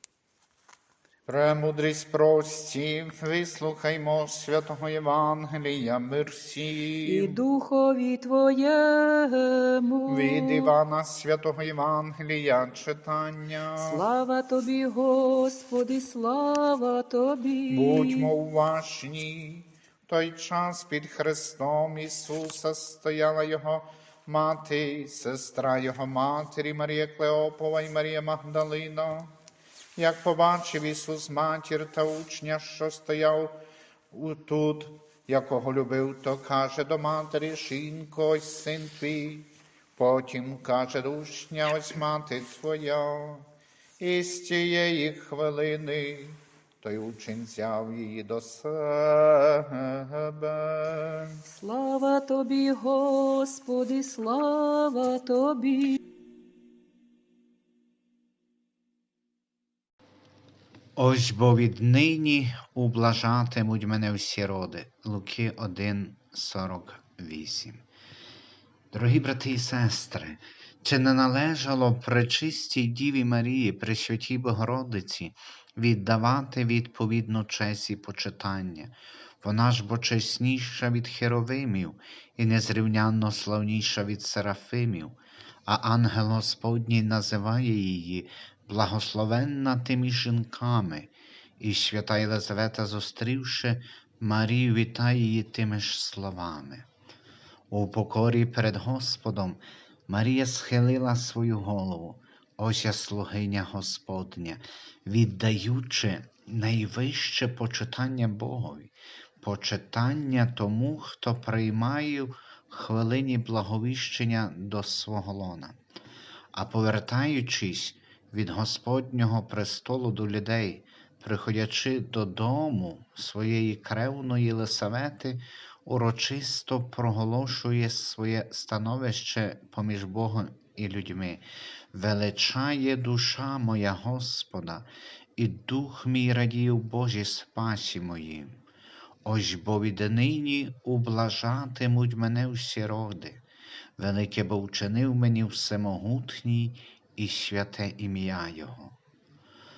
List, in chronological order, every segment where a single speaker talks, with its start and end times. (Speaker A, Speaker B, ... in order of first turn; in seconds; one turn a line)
Speaker A: 1.3-7.4
Speaker B: 7.0-10.7
Speaker A: 10.1-14.0
Speaker B: 13.8-18.3
Speaker A: 17.7-29.3
Speaker A: 29.9-33.6
Speaker A: 34.1-43.5
Speaker A: 44.0-51.4
Speaker B: 51.4-56.0
Speaker C: 61.0-67.8
Speaker C: 68.9-96.9
Speaker C: 97.7-115.8
Speaker C: 116.5-138.6
Speaker C: 139.2-143.4
Speaker C: 144.0-148.9